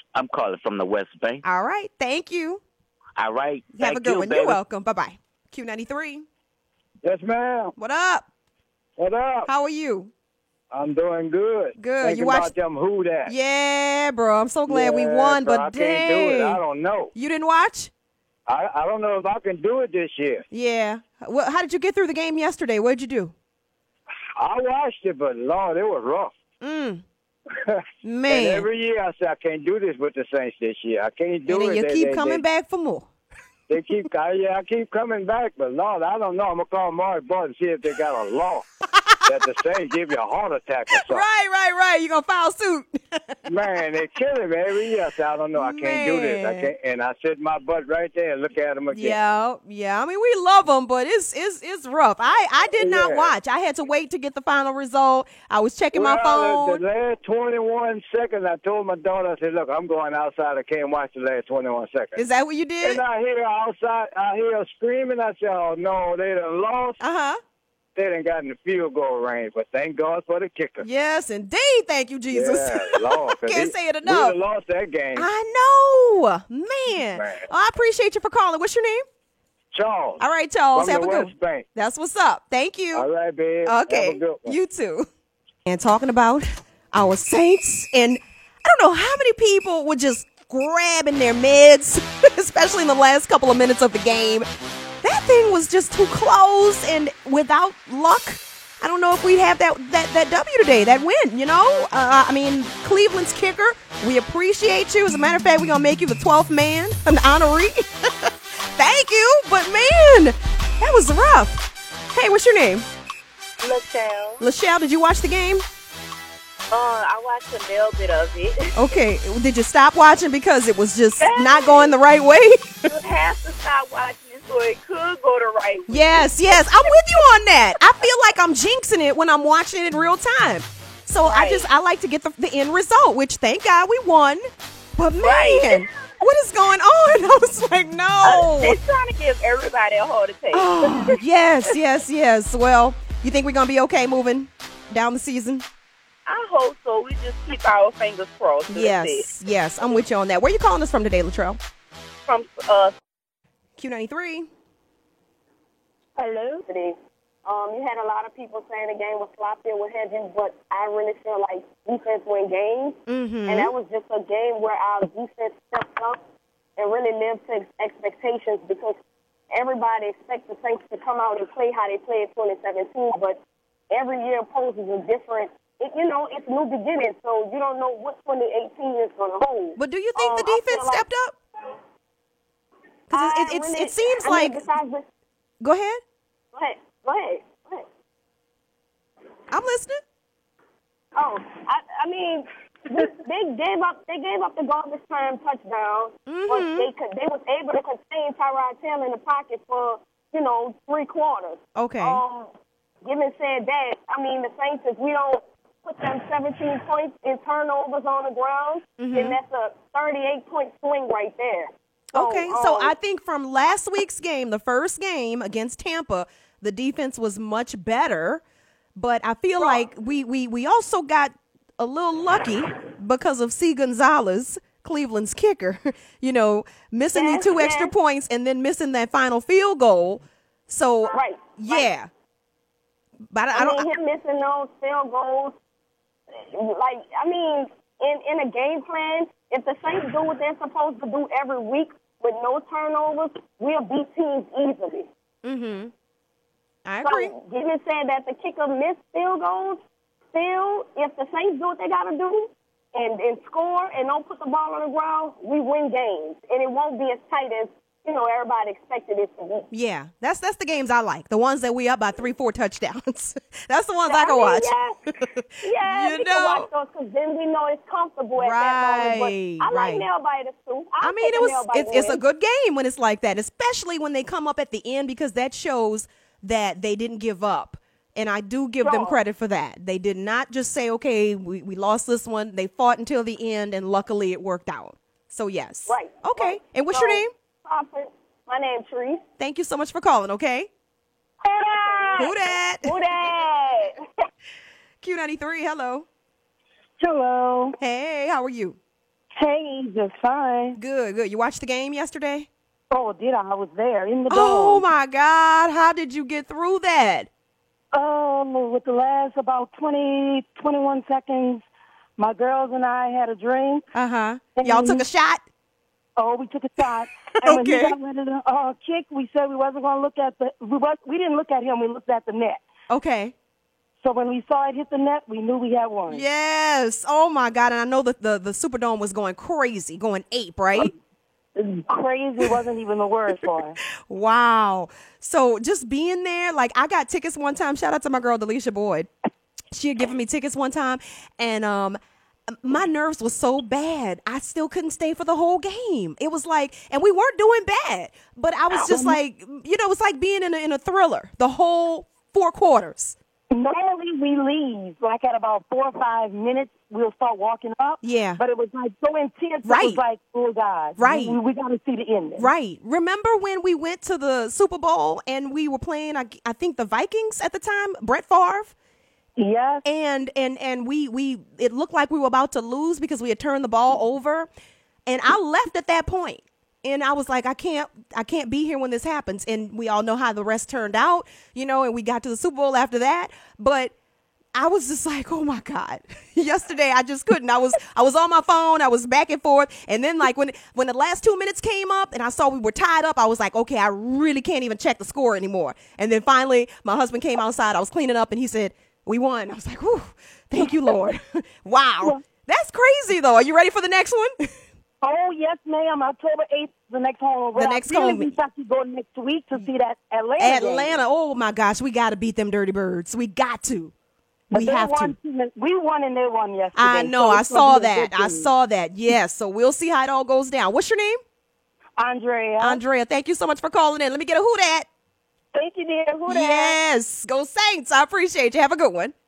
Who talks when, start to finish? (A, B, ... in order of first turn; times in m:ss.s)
0:00.1-0:01.4 A
0:01.4-0:02.6 B
0:03.2-0:04.6 A
0:03.8-0:06.2 B
0:07.0-0:07.7 C
0:07.8-0:08.3 B
0:09.0-0:09.5 C
0:09.5-0:10.1 B
0:10.7-0:13.3 C
0:11.8-0:12.5 B
0:13.2-0:16.6 B
0:14.7-0:17.1 C
0:17.1-0:17.9 B
0:18.5-0:20.4 C
0:20.5-0:23.3 B
0:24.4-0:26.3 C
0:26.6-0:27.0 B
0:27.7-0:32.4 C
0:28.0-0:28.6 B
0:31.5-0:33.1 B
0:33.7-0:38.6 C
0:39.2-0:41.2 C
0:41.0-0:43.4 B
0:43.4-0:49.2 C
0:45.5-0:46.7 B
0:48.9-0:56.8 B
0:52.8-0:53.3 C
0:55.9-1:02.2 C
1:02.2-1:03.0 B
1:02.8-1:07.0 C
1:07.0-1:07.4 B
1:08.0-1:10.8 C
1:10.8-1:14.4 B
1:12.3-1:15.3 C
1:15.1-1:19.0 B
1:16.9-1:17.5 C
1:19.7-1:20.2 C
1:20.2-1:23.0 B
1:20.7-1:21.6 C
1:22.9-1:24.6 C
1:23.6-1:25.1 B
1:25.6-1:34.5 B
1:35.0-1:51.6 B
1:52.1-1:52.8 B
1:53.6-1:54.4 D
1:54.4-1:55.6 B
1:56.7-1:58.7 D
1:58.7-2:02.8 B
2:01.2-2:01.9 D
2:02.9-2:06.2 D
2:05.9-2:14.4 B
2:15.0-2:18.8 B
2:15.2-2:15.8 D
2:18.2-2:21.0 D
2:20.5-2:25.6 B
2:26.3-2:29.2 D
2:28.7-2:31.6 B
2:32.3-2:32.9 D
2:33.8-2:34.5 B
2:36.2-2:36.6 E
2:36.7-2:46.2 F
2:43.1-2:43.7 B
2:46.8-2:49.0 F
2:49.5-2:53.4 F
2:53.9-3:01.0 F
2:59.8-3:01.3 B
3:03.1-3:05.0 F
3:03.1-3:04.6 B
3:05.6-3:06.0 B
3:06.5-3:07.8 F
3:09.5-3:10.0 B
3:11.2-3:22.5 F
3:16.3-3:16.9 B
3:21.8-3:22.2 B
3:23.0-3:32.9 F
3:29.0-3:29.4 B
3:32.1-3:38.4 B
3:39.0-3:52.1 B
3:39.6-3:39.8 F
3:47.1-3:47.9 F
3:51.1-3:51.9 F
3:53.3-3:53.9 B
3:53.5-3:55.5 F
3:56.3-4:05.1 F
4:05.4-4:05.9 B
4:06.8-4:07.3 B
4:07.0-4:09.8 F
4:10.3-4:19.6 F
4:19.7-4:25.3 B
4:24.1-4:25.0 F
4:25.6-4:32.2 F
4:25.8-4:26.7 B
4:28.3-4:30.0 B
4:31.0-4:47.3 B
4:38.8-4:39.2 F
4:45.9-4:49.2 F
4:49.4-4:50.7 B
4:51.4-4:52.3 E
4:51.6-4:53.9 F
4:52.2-4:52.9 B
4:55.0-4:56.0 B
4:57.0-4:57.8 E
4:57.8-4:58.8 B
4:59.3-5:00.8 E
5:00.8-5:02.5 B
5:02.9-5:04.8 E
5:04.3-5:07.3 B
5:07.9-5:11.6 E
5:12.2-5:13.8 E
5:13.9-5:15.4 B
5:14.6-5:15.0 E
5:16.2-5:22.6 E
5:17.4-5:18.0 B
5:22.9-5:23.3 B
5:24.0-5:26.2 E
5:26.1-5:30.9 B
5:31.6-5:33.7 E
5:34.1-5:39.1 B
5:39.7-5:42.0 B
5:42.5-5:53.2 B
5:48.7-5:49.2 E
5:53.5-6:02.5 E
5:58.0-5:58.4 B
5:59.6-6:00.0 B
6:01.0-6:01.4 B
6:02.4-6:08.7 B
6:09.4-6:09.8 E
6:09.8-6:14.5 B
6:15.1-6:23.9 B
6:24.5-6:44.5 B
6:45.0-6:51.0 E
6:47.5-6:48.3 B
6:50.4-6:53.9 B
6:54.5-6:58.5 E
6:54.5-6:55.1 B
6:56.8-7:01.2 B
7:02.0-7:02.8 E
7:02.6-7:04.9 B
7:05.7-7:06.8 F
7:06.2-7:09.1 B